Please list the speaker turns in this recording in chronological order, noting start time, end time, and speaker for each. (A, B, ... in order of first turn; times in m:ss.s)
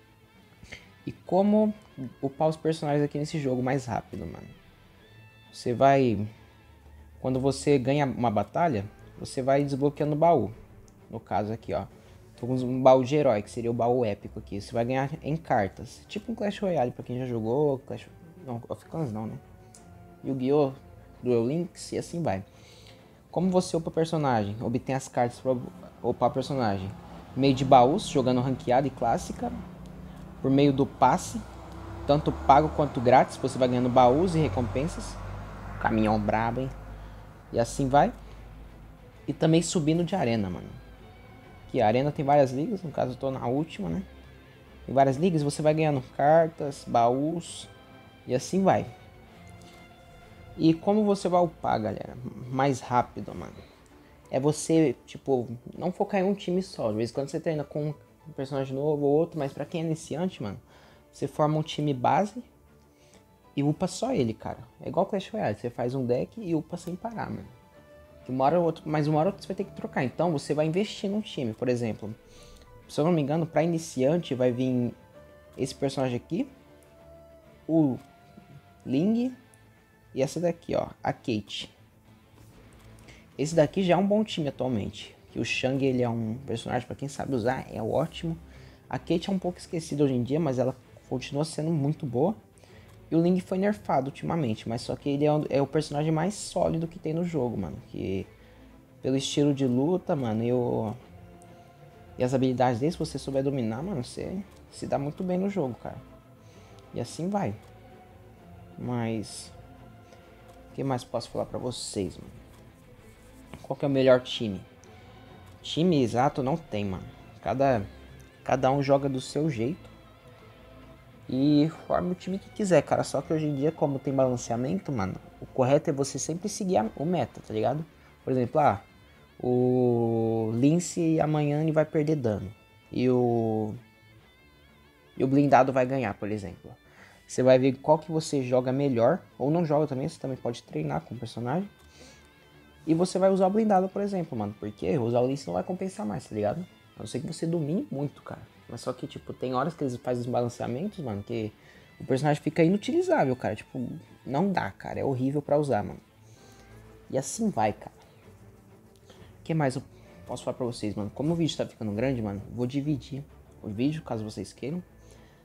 0:01.0-0:04.5 A
0:05.5-0:06.3 A
0:07.2-0:10.5 A
0:11.1-0:19.4 A
0:20.2-0:22.4 A
0:23.3-0:29.6 A
0:30.4-0:31.4 A
0:32.0-0:35.2 A
0:35.8-0:36.7 A
0:37.5-0:38.1 A
0:39.3-0:40.8 A
0:41.7-0:44.1 A
0:44.8-0:47.7 A
0:48.2-0:48.9 A
0:50.6-0:53.6 A
0:54.3-1:02.5 A
1:03.5-1:07.5 A
1:08.2-1:12.2 A
1:12.9-1:15.0 A
1:15.6-1:16.5 A
1:17.7-1:18.0 A
1:18.8-1:19.4 A
1:20.1-1:21.7 A
1:23.4-1:32.4 A
1:33.1-1:38.3 A
1:39.0-1:41.0 A
1:42.2-1:46.0 A
1:46.9-1:47.6 A
1:48.8-1:49.5 A
1:50.7-1:52.4 A
1:53.6-1:54.7 A
1:55.6-1:57.9 A
1:58.4-1:59.9 A
2:01.3-2:08.8 A
2:09.4-2:13.8 A
2:15.2-2:21.7 A
2:22.8-2:36.0 A
2:37.1-2:38.0 A
2:39.4-2:44.8 A